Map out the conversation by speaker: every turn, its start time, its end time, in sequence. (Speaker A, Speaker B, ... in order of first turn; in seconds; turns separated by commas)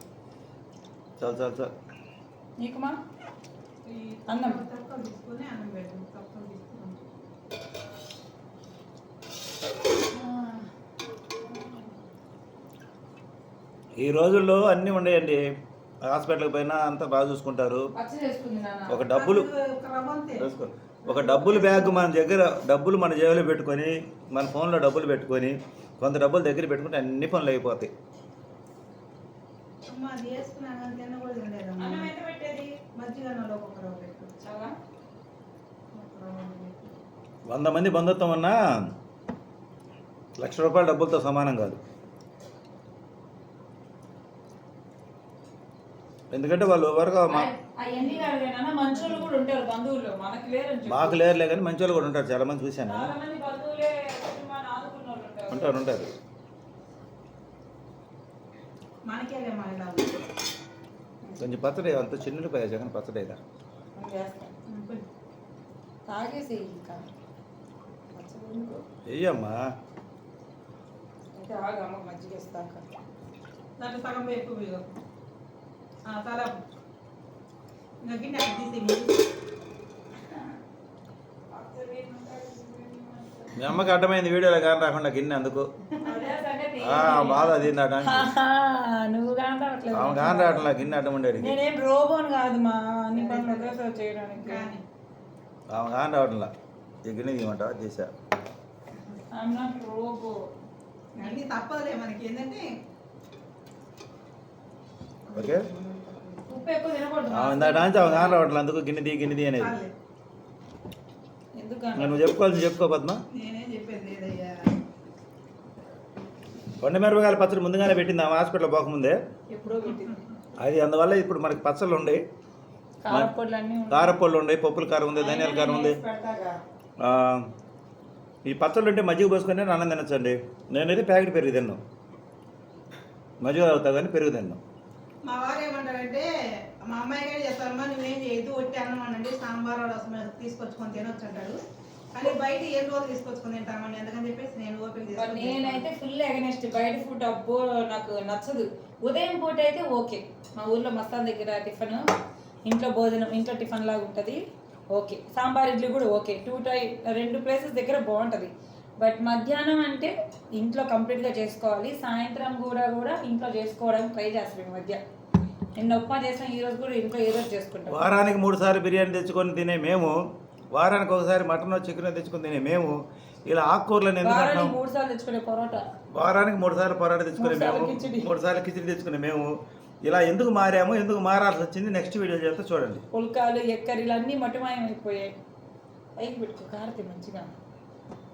Speaker A: 1.2-1.7, Speaker B: 2.6-3.0, Speaker C: 3.9-7.1, Speaker B: 4.3-4.6, Speaker B: 10.1-10.7, Speaker B: 11.4-11.9, Speaker A: 14.0-15.4, Speaker A: 16.1-17.9, Speaker B: 17.9-19.0, Speaker A: 18.9-19.5, Speaker C: 19.1-20.5, Speaker A: 20.4-27.9, Speaker C: 21.1-22.1, Speaker C: 29.9-32.1, Speaker B: 31.8-32.8, Speaker C: 33.0-34.4, Speaker B: 34.4-34.8, Speaker C: 35.9-37.0, Speaker A: 37.5-38.6, Speaker A: 40.4-41.8, Speaker A: 46.3-47.5, Speaker B: 47.3-51.2, Speaker C: 48.0-48.3, Speaker C: 49.0-49.3, Speaker A: 50.9-53.1, Speaker B: 52.9-55.9, Speaker A: 55.5-56.1, Speaker C: 59.1-60.2, Speaker B: 61.2-61.5, Speaker A: 61.4-63.4, Speaker B: 64.0-64.6, Speaker C: 64.7-65.0, Speaker B: 66.1-67.1, Speaker B: 68.1-68.8, Speaker A: 69.1-69.6, Speaker B: 71.3-72.8, Speaker C: 73.8-74.9, Speaker C: 76.1-76.5, Speaker C: 78.0-79.2, Speaker B: 81.5-83.8, Speaker A: 83.6-85.7, Speaker B: 86.0-90.8, Speaker A: 86.8-88.3, Speaker A: 89.9-91.5, Speaker B: 91.4-94.7, Speaker C: 93.1-93.8, Speaker C: 94.4-94.8, Speaker A: 95.7-96.5, Speaker A: 97.1-98.1, Speaker B: 99.3-100.4, Speaker B: 101.2-101.5, Speaker C: 101.2-102.7, Speaker C: 105.3-106.6, Speaker A: 105.3-105.6, Speaker B: 106.5-108.5, Speaker A: 107.3-109.8, Speaker C: 109.6-109.9, Speaker B: 111.6-112.2, Speaker A: 112.0-113.2, Speaker C: 113.3-114.7, Speaker A: 116.8-119.2, Speaker B: 119.5-120.2, Speaker A: 120.6-122.2, Speaker B: 123.0-124.2, Speaker A: 123.9-126.0, Speaker B: 125.1-126.6, Speaker A: 127.0-127.5, Speaker A: 128.4-131.8, Speaker A: 133.4-134.6, Speaker C: 135.2-141.6, Speaker C: 142.1-145.9, Speaker B: 145.2-152.0, Speaker B: 152.7-154.4, Speaker B: 154.9-165.0, Speaker B: 165.8-168.0, Speaker A: 167.9-170.2, Speaker A: 170.7-174.8, Speaker B: 174.2-175.9, Speaker A: 176.1-179.5, Speaker B: 177.4-178.3, Speaker A: 180.1-183.0, Speaker B: 183.1-185.3, Speaker B: 186.2-187.5